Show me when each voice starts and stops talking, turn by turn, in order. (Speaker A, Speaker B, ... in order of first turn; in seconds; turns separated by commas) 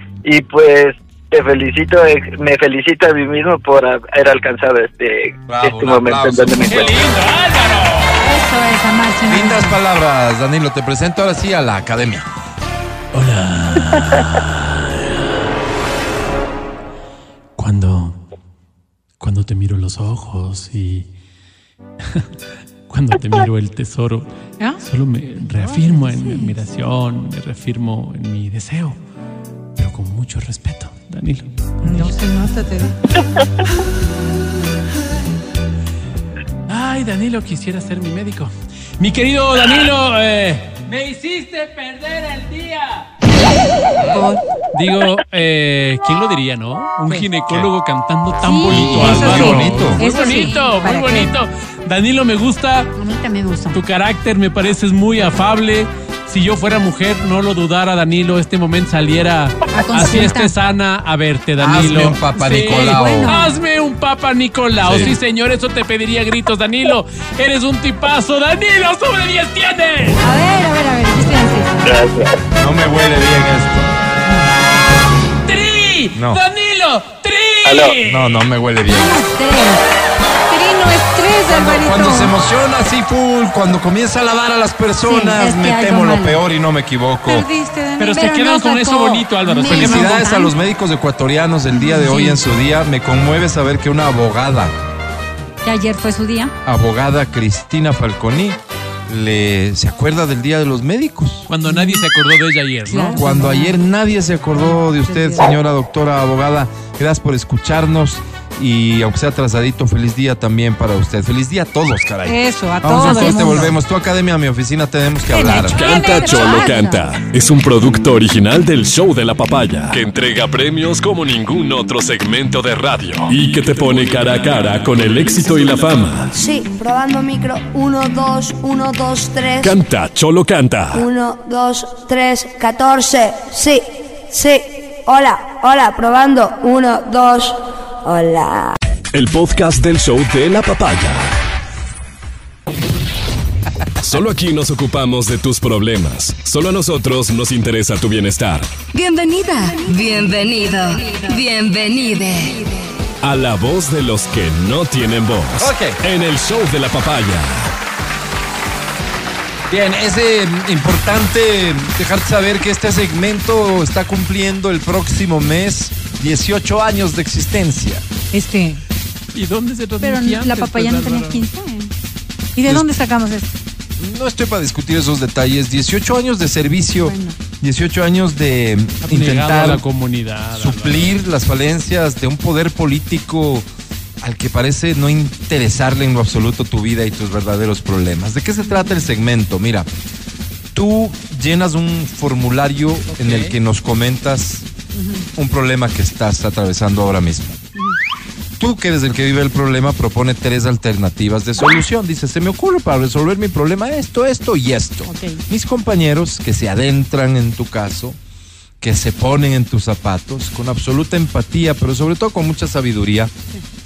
Speaker A: 0.2-7.0, Speaker B: 5.5-6.9, Speaker C: 6.6-8.1, Speaker D: 8.2-9.7, Speaker E: 9.1-9.5, Speaker B: 9.3-12.3, Speaker C: 13.1-15.3, Speaker C: 17.6-18.2, Speaker C: 19.2-21.1, Speaker C: 22.9-24.3, Speaker C: 24.8-29.0, Speaker D: 25.6-26.5, Speaker C: 29.8-32.1, Speaker E: 31.8-32.9, Speaker C: 36.7-43.1, Speaker E: 44.1-44.4, Speaker C: 44.7-52.9, Speaker D: 48.4-48.8, Speaker E: 48.6-51.3, Speaker B: 48.7-50.0, Speaker D: 50.0-50.9, Speaker D: 52.9-53.8, Speaker C: 53.7-70.2, Speaker D: 59.7-60.5, Speaker B: 61.6-63.3, Speaker D: 62.4-63.5, Speaker B: 64.8-65.1, Speaker D: 70.2-72.0, Speaker A: 71.8-72.4, Speaker B: 72.6-73.9, Speaker C: 75.5-78.4, Speaker B: 76.1-76.4, Speaker A: 77.6-78.0, Speaker B: 78.0-79.2, Speaker D: 78.9-79.8, Speaker E: 80.5-82.3, Speaker B: 81.5-87.5, Speaker D: 85.0-86.4, Speaker E: 87.3-88.3, Speaker C: 88.0-90.2, Speaker D: 88.1-90.5, Speaker B: 89.7-94.7, Speaker D: 91.7-92.4, Speaker D: 95.6-96.5, Speaker B: 96.6-101.5, Speaker C: 101.5-103.2, Speaker E: 102.9-103.6, Speaker B: 103.2-115.8, Speaker D: 103.3-103.7, Speaker E: 104.9-105.4, Speaker E: 112.2-113.7, Speaker D: 113.1-113.6, Speaker E: 115.3-116.9, Speaker F: 115.7-126.3, Speaker D: 115.8-117.0, Speaker G: 126.3-129.8, Speaker F: 129.6-131.1, Speaker G: 130.9-138.8, Speaker F: 139.1-141.4, Speaker F: 144.0-148.7, Speaker H: 148.9-152.7, Speaker F: 153.2-157.7, Speaker B: 155.6-156.0, Speaker B: 159.7-168.0, Speaker E: 168.3-168.8, Speaker C: 169.3-171.4, Speaker D: 170.0-171.9, Speaker E: 172.6-173.5, Speaker B: 174.0-179.8, Speaker D: 176.9-177.3, Speaker C: 179.1-181.2, Speaker B: 180.5-183.7, Speaker B: 184.2-189.9, Speaker B: 190.7-194.7, Speaker C: 193.1-193.6, Speaker D: 194.9-195.3, Speaker B: 195.3-197.6, Speaker B: 198.6-208.2, Speaker D: 205.1-205.4, Speaker B: 208.8-213.3